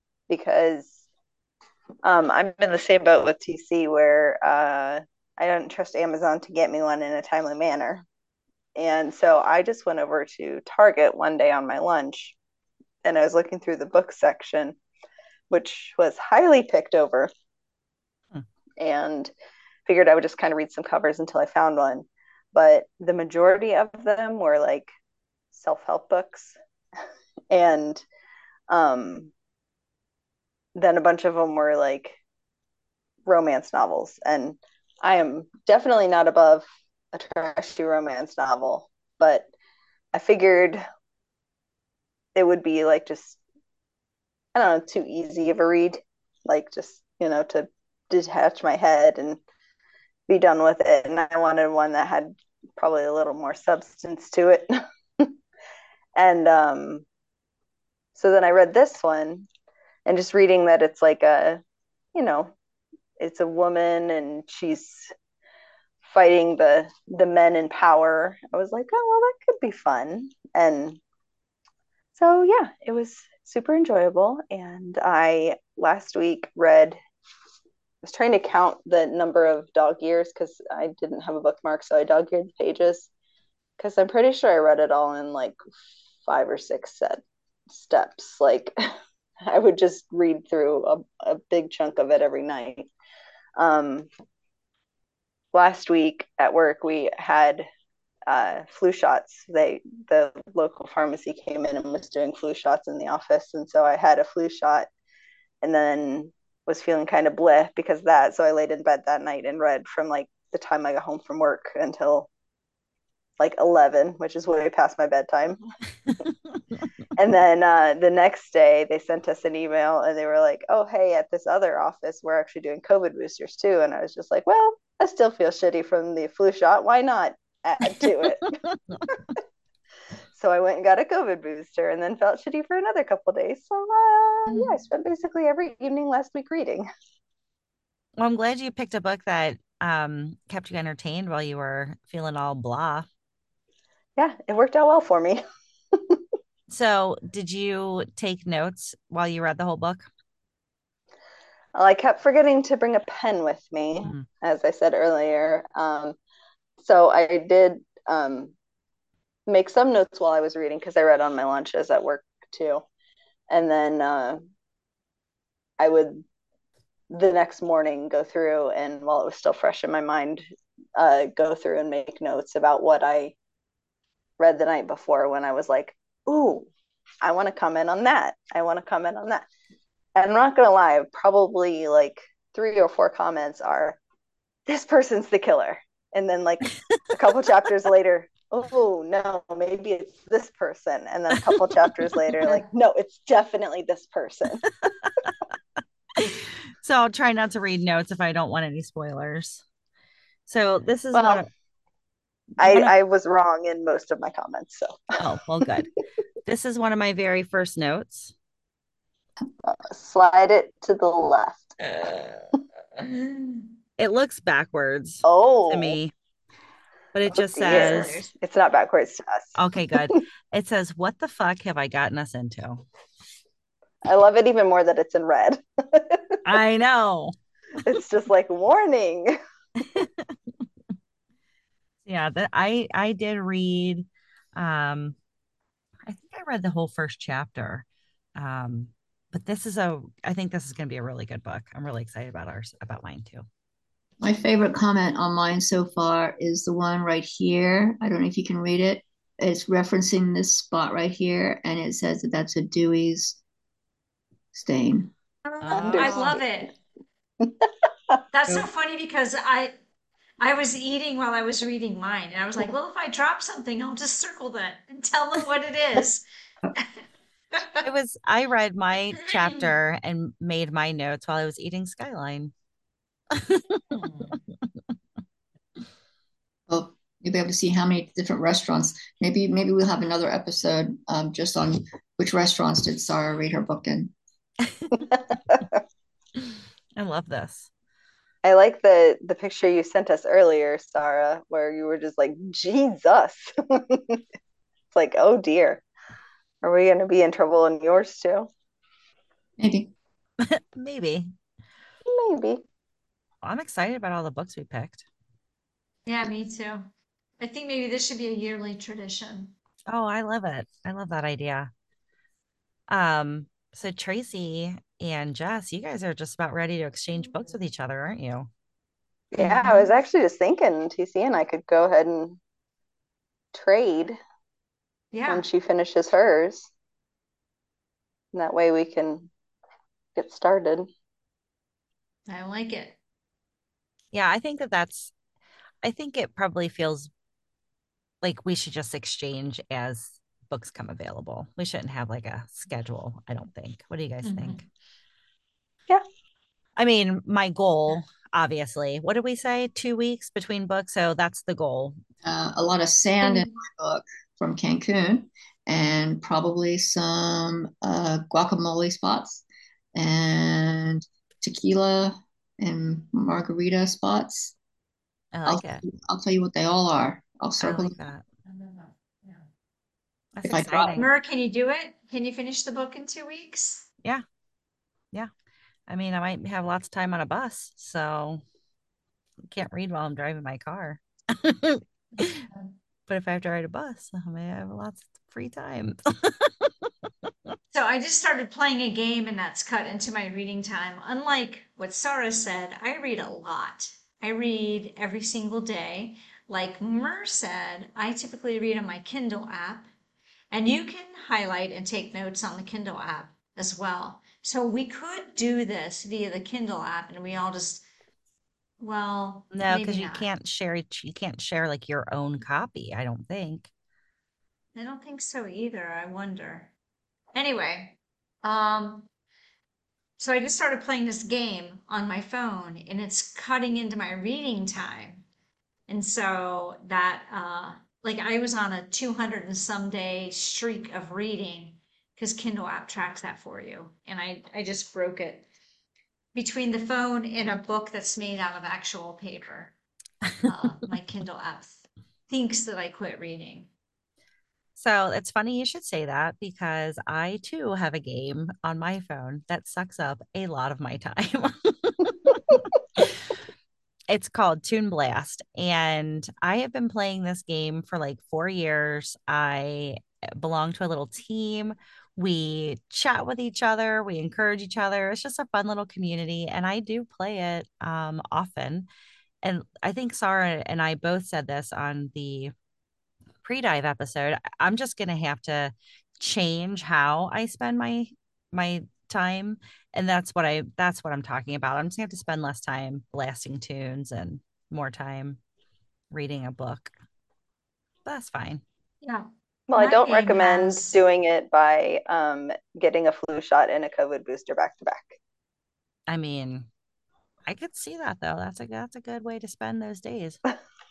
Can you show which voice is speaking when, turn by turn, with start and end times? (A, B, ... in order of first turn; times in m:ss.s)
0:00.3-0:01.0 A
0:02.0-0:08.0 A
0:08.8-0:12.4 A
0:13.0-0:14.8 A
0:15.5-0:17.3 A
0:18.8-0:19.3 A
0:19.9-0:24.9 A
0:25.5-0:26.6 A
0:27.5-0:28.0 A
0:28.7-0:29.3 A
0:30.8-0:32.2 A
0:33.3-0:39.5 A
0:40.1-0:40.8 A
0:42.4-0:43.4 A
0:44.6-0:49.4 A
0:50.3-0:55.3 A
0:56.2-0:57.0 A
0:58.2-0:59.5 A
1:00.1-1:01.6 A
1:02.2-1:02.6 A
1:03.2-1:05.1 A
1:06.0-1:11.0 A
1:12.2-1:17.0 A
1:18.0-1:23.1 A
1:23.8-1:25.6 A
1:26.3-1:28.7 A
1:29.4-1:32.9 A
1:33.6-1:34.1 A
1:35.5-1:37.7 A
1:38.3-1:44.9 A
1:45.6-1:52.3 A
1:53.4-1:55.6 A
1:57.2-2:09.4 A
2:10.4-2:16.9 A
2:18.2-2:23.1 B
2:24.2-2:25.4 A
2:25.9-2:26.2 A
2:26.7-2:30.1 B
2:31.8-2:36.2 A
2:36.8-2:38.5 A
2:39.5-2:42.8 A
2:43.5-2:44.5 A
2:45.8-2:46.2 A
2:47.1-2:50.4 A
2:51.0-2:53.4 A
2:54.4-2:56.7 A
2:57.2-2:59.5 A
3:00.2-3:04.0 A
3:04.7-3:14.7 A
3:14.9-3:15.3 B
3:16.2-3:19.6 B
3:20.5-3:21.5 B
3:21.1-3:21.4 A
3:22.6-3:25.7 A
3:22.6-3:22.9 B
3:25.2-3:25.9 B
3:26.5-3:28.3 B
3:29.6-3:31.8 A
3:33.1-3:33.6 C
3:34.0-3:36.1 B
3:35.2-3:36.0 A
3:37.1-3:38.2 B
3:37.3-3:40.2 A
3:37.6-3:38.3 C
3:39.6-3:42.8 B
3:44.0-3:46.4 A
3:46.4-3:47.4 B
3:47.8-3:49.3 A
3:49.8-3:50.3 B
3:52.1-3:55.2 B
3:56.1-3:57.8 B
3:58.4-4:03.4 B
4:04.2-4:13.4 D
4:14.5-4:15.1 D
4:15.5-4:16.7 C
4:15.6-4:16.3 B
4:15.7-4:16.4 A
4:17.4-4:17.7 A
4:18.3-4:19.7 C
4:20.4-4:26.2 C
4:27.6-4:27.8 C
4:27.8-4:32.5 B
4:33.3-4:33.6 B
4:33.9-4:34.4 C
4:36.7-4:44.1 D
4:44.9-4:45.8 A
4:47.0-4:47.7 B
4:48.4-4:54.2 A
4:54.9-4:55.8 A
4:56.6-4:58.5 A
4:59.6-4:59.9 D
5:00.4-5:01.3 B
5:02.1-5:02.6 A
5:03.4-5:05.0 B
5:06.1-5:06.9 C
5:07.4-5:09.5 C
5:09.9-5:11.7 B
5:12.9-5:18.5 B
5:19.3-5:22.4 A
5:19.4-5:19.9 C
5:23.5-5:24.2 A
5:25.1-5:25.5 C
5:25.3-5:26.7 A
5:28.3-5:29.3 A
5:30.2-5:30.9 A
5:32.3-5:33.0 C
5:34.1-5:35.1 B
5:35.8-5:37.1 B
5:38.2-5:44.6 B
5:44.2-5:44.7 C
5:46.8-5:52.0 B
5:52.2-6:04.6 D
5:53.2-5:53.5 C
6:05.3-6:05.8 B
6:05.5-6:08.0 D
6:07.6-6:08.2 B
6:08.5-6:09.4 C
6:10.4-6:11.1 B
6:10.4-6:11.0 D
6:11.0-6:13.8 C
6:15.9-6:18.4 B
6:19.5-6:22.5 B
6:23.1-6:26.7 B
6:27.7-6:39.9 C
6:40.5-6:47.8 C
6:48.8-6:50.3 C
6:49.5-6:53.7 B
6:54.8-6:56.7 C
6:57.3-6:59.1 C
7:00.2-7:05.2 C
7:05.9-7:15.5 C
7:16.3-7:19.7 C
7:20.5-7:23.7 C
7:24.8-7:33.2 B
7:34.1-7:48.9 B
7:49.4-7:52.5 B
7:53.4-8:05.4 B
8:06.1-8:06.9 B
8:08.1-8:08.6 B
8:09.0-8:11.0 C
8:09.7-8:15.2 A
8:16.1-8:16.7 B
8:17.5-8:20.4 B